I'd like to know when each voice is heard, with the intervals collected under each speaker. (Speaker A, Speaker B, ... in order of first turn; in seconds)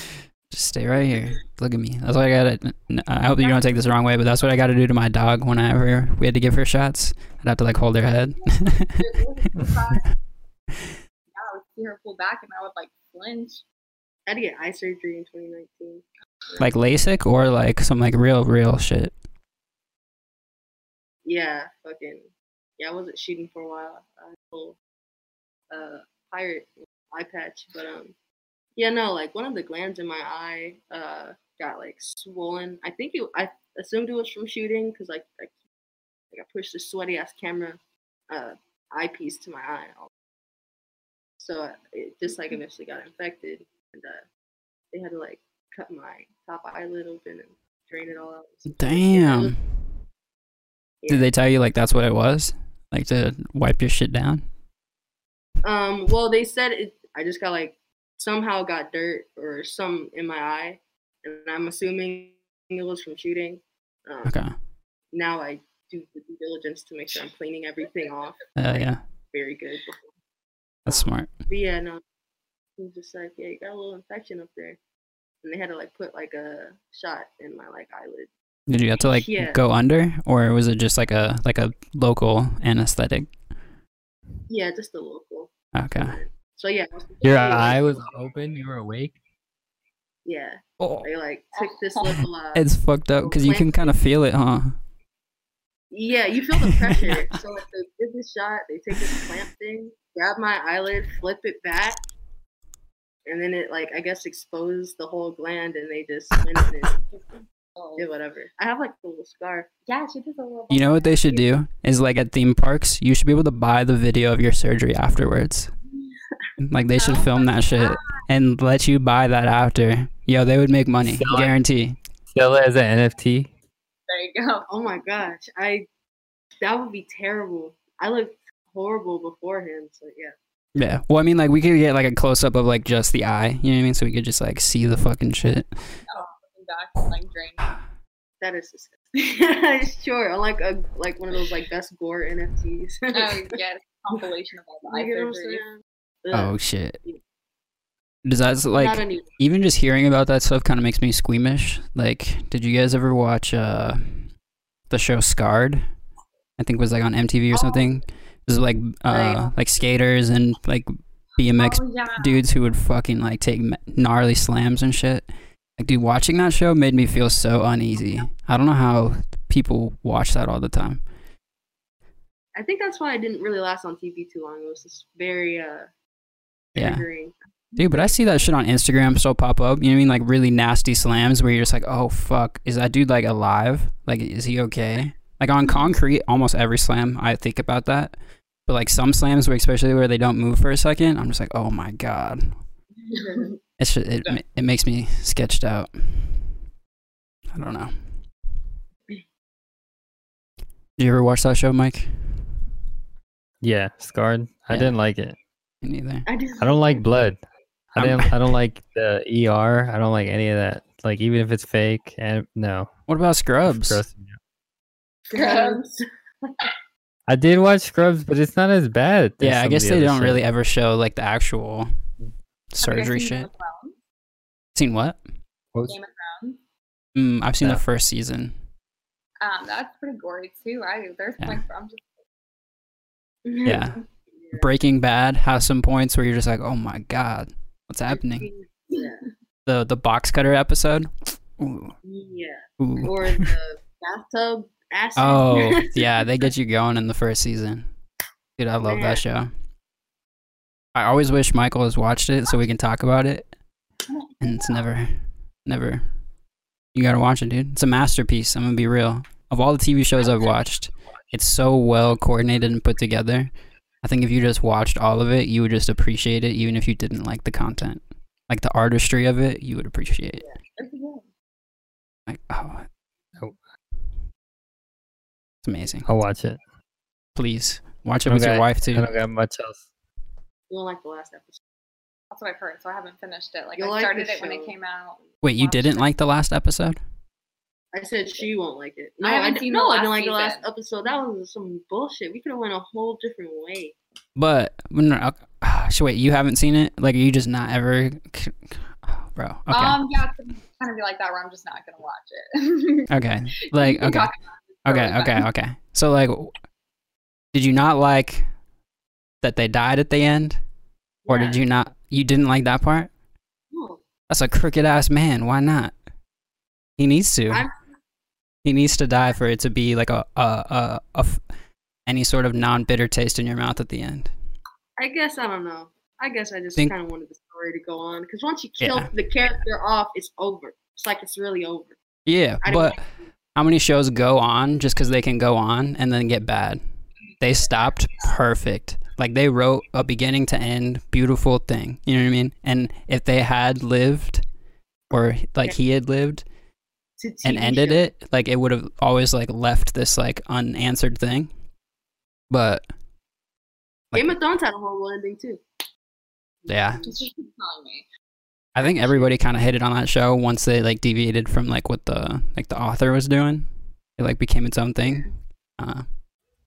Speaker A: 0.5-9.1, 16.6-19.2, 48.7-49.9, 51.1-54.5, 64.2-64.5, 68.5-69.0, 70.8-71.3, 78.7-83.5, 85.7-86.2, 90.8-91.1, 92.5-94.8, 110.7-115.7, 116.6-122.0, 130.7-136.0, 146.3-147.0, 148.2-154.4, 154.9-156.0, 156.6-171.1, 176.7-177.1, 177.8-192.7, 193.8-196.6, 197.5-198.2, 201.0-202.5, 204.7-205.0, 205.8-206.2, 207.9-208.3, 213.1-214.0, 219.4-222.0, 222.7-223.5, 224.7-225.2, 227.1-228.6, 233.6-238.5, 239.7-242.0, 242.8-243.5, 245.2-247.9, 248.6-249.5, 250.9-253.6, 254.4-256.2, 256.9-270.4, 272.3-272.9, 275.6-276.1, 277.3-279.1, 285.4-287.0, 294.4-300.0, 303.1-304.3, 304.8-306.6, 307.5-308.6, 309.4-310.7, 311.2-313.1, 314.3-316.0, 317.0-317.7, 318.6-321.4, 322.0-324.3, 328.8-329.1, 332.2-344.4, 345.1-346.4, 347.4-351.5, 352.5-352.9, 354.1-354.4, 356.7-357.1, 358.7-366.2
Speaker B: 3.4-3.8, 8.4-10.2, 11.3-13.6, 87.3-87.7, 91.6-92.3, 107.0-108.1, 109.9-111.5, 117.0-118.2, 124.1-124.7, 136.1-137.8, 143.1-145.6, 157.5-158.1, 161.5-162.4, 177.7-178.3, 215.3-215.8, 222.8-224.0, 225.9-226.6, 229.4-232.1, 254.1-254.9, 260.2-260.5, 270.8-271.2, 282.3-286.1, 289.2-290.7, 299.7-303.1, 303.8-305.5, 357.0-358.0
Speaker C: 14.3-16.7, 21.2-24.8, 25.7-28.1, 28.8-35.5, 36.3-40.1, 41.4-44.2, 44.9-49.5, 51.0-51.3, 55.6-70.1, 70.9-72.0, 72.8-74.8, 75.4-78.3, 79.0-79.6, 84.5-88.1, 90.2-93.9, 95.9-102.0, 103.2-107.0, 108.0-109.7, 124.7-125.9, 126.6-130.3, 138.4-143.5, 144.9-147.2, 148.7-149.3, 159.1-159.5, 172.6-175.9, 176.7-177.3, 193.1-193.6, 206.2-207.0, 215.3-216.5, 233.4-234.7, 238.2-239.3, 242.0-246.2, 248.8-249.2, 280.7-281.6, 283.8-284.7, 287.9-293.9, 311.2-311.6, 313.7-314.0, 317.5-317.8, 325.0-331.9, 332.6-333.2, 347.2-348.0, 354.1-355.6, 356.6-357.3, 358.8-359.3, 365.0-365.3
Speaker D: 87.2-89.2, 121.0-121.5, 122.3-123.5, 203.6-205.3, 206.6-207.4, 207.9-212.9, 213.7-214.4, 217.3-220.4, 276.0-276.6, 278.2-279.8